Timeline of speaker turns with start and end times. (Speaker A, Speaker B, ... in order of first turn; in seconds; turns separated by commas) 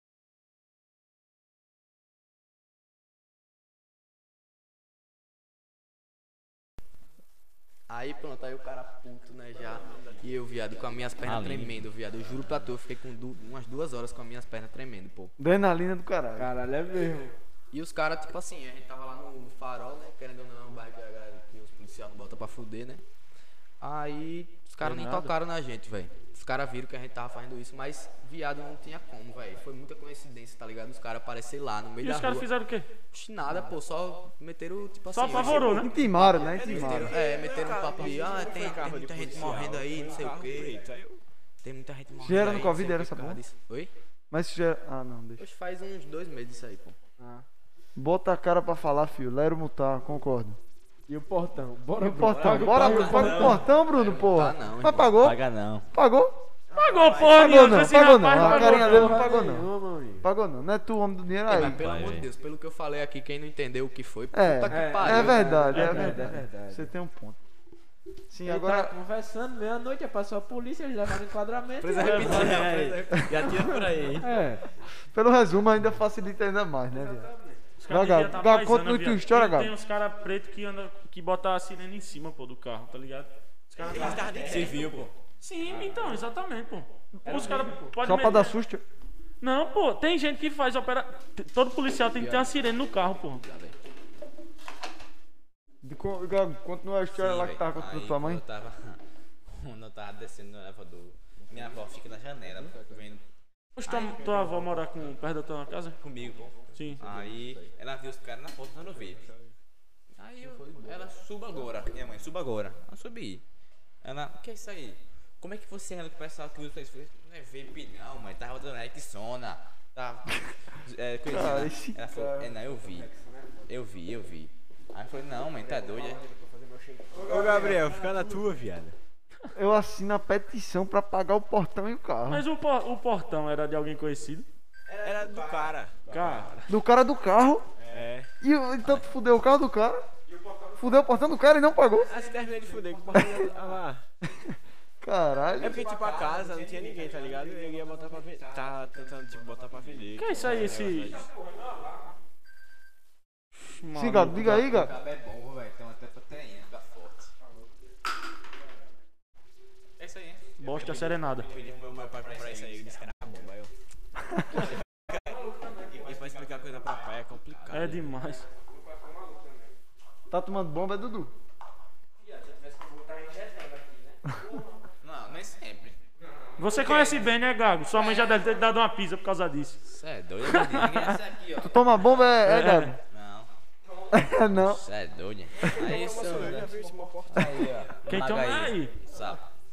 Speaker A: 7.9-15.3, Speaker B: 11.2-11.8, Speaker C: 15.4-16.5, Speaker D: 16.4-17.4, Speaker A: 17.7-23.0, Speaker A: 23.8-32.5, Speaker E: 24.8-25.3, Speaker E: 32.0-32.9, Speaker A: 33.1-40.8, Speaker E: 35.1-36.0, Speaker C: 35.6-37.2, Speaker F: 36.1-41.2, Speaker A: 41.6-43.9, Speaker C: 42.2-43.4, Speaker C: 44.3-45.5, Speaker A: 45.4-47.0, Speaker D: 47.2-47.5, Speaker C: 48.0-50.6, Speaker D: 51.1-53.6, Speaker C: 52.0-56.4, Speaker A: 52.4-55.2, Speaker E: 52.8-53.4, Speaker B: 55.2-55.9, Speaker E: 56.7-59.4, Speaker B: 56.9-57.7, Speaker C: 57.3-59.7, Speaker D: 58.3-60.3, Speaker C: 60.2-61.8, Speaker A: 61.5-65.8, Speaker B: 61.5-62.3, Speaker C: 64.3-67.4, Speaker D: 64.7-66.9, Speaker E: 65.7-66.3, Speaker C: 68.3-68.9, Speaker D: 68.4-72.8, Speaker B: 71.8-74.3, Speaker E: 72.0-72.8, Speaker A: 72.0-73.4, Speaker D: 74.2-74.6, Speaker C: 75.1-77.3, Speaker D: 76.9-77.6, Speaker E: 77.8-84.5, Speaker C: 77.9-79.7, Speaker F: 83.8-85.1, Speaker D: 83.8-84.8, Speaker B: 84.3-85.1, Speaker E: 85.4-88.5, Speaker D: 85.7-86.2, Speaker D: 87.2-88.2, Speaker C: 88.0-88.8, Speaker E: 89.4-93.4, Speaker A: 92.1-93.8, Speaker C: 95.8-98.4, Speaker B: 97.1-103.2, Speaker A: 101.5-101.8, Speaker A: 102.5-103.0, Speaker E: 103.8-106.0, Speaker B: 103.8-104.3, Speaker F: 104.1-104.5, Speaker B: 106.0-109.3, Speaker E: 106.7-107.0, Speaker A: 106.8-107.6, Speaker F: 109.0-109.5, Speaker B: 110.2-113.4, Speaker A: 110.4-111.9, Speaker B: 114.0-123.1, Speaker C: 121.3-122.5, Speaker D: 122.5-123.7, Speaker B: 123.7-126.2, Speaker D: 125.5-128.1, Speaker F: 127.1-129.0, Speaker C: 129.5-132.4, Speaker E: 132.3-134.5, Speaker F: 134.9-136.5, Speaker D: 134.9-135.5, Speaker D: 136.0-136.5, Speaker E: 136.0-136.7, Speaker C: 136.7-137.7, Speaker F: 137.8-138.3, Speaker C: 138.4-140.0, Speaker D: 140.3-140.9, Speaker C: 140.8-142.1, Speaker F: 142.0-144.1, Speaker D: 142.2-143.4, Speaker C: 144.3-145.9, Speaker F: 145.6-151.3, Speaker D: 145.6-152.1, Speaker E: 150.1-151.2, Speaker E: 153.7-154.6, Speaker C: 153.9-154.9, Speaker A: 154.4-155.7, Speaker B: 155.7-157.3, Speaker B: 160.0-160.5, Speaker E: 160.6-161.5, Speaker F: 160.7-163.7, Speaker B: 161.4-163.1, Speaker D: 165.4-166.4, Speaker F: 165.9-168.2, Speaker E: 167.7-168.5, Speaker D: 168.5-169.8, Speaker C: 170.3-171.3, Speaker D: 172.2-174.4, Speaker B: 175.0-176.0, Speaker D: 176.2-177.0, Speaker E: 176.6-179.8, Speaker B: 176.8-177.3, Speaker B: 179.8-182.2, Speaker E: 180.4-181.2, Speaker C: 181.6-183.0, Speaker E: 182.4-182.9, Speaker B: 183.1-183.5, Speaker C: 184.1-184.8, Speaker B: 184.5-186.7, Speaker F: 185.6-188.0, Speaker D: 185.7-187.5, Speaker B: 187.3-189.4, Speaker E: 188.0-189.0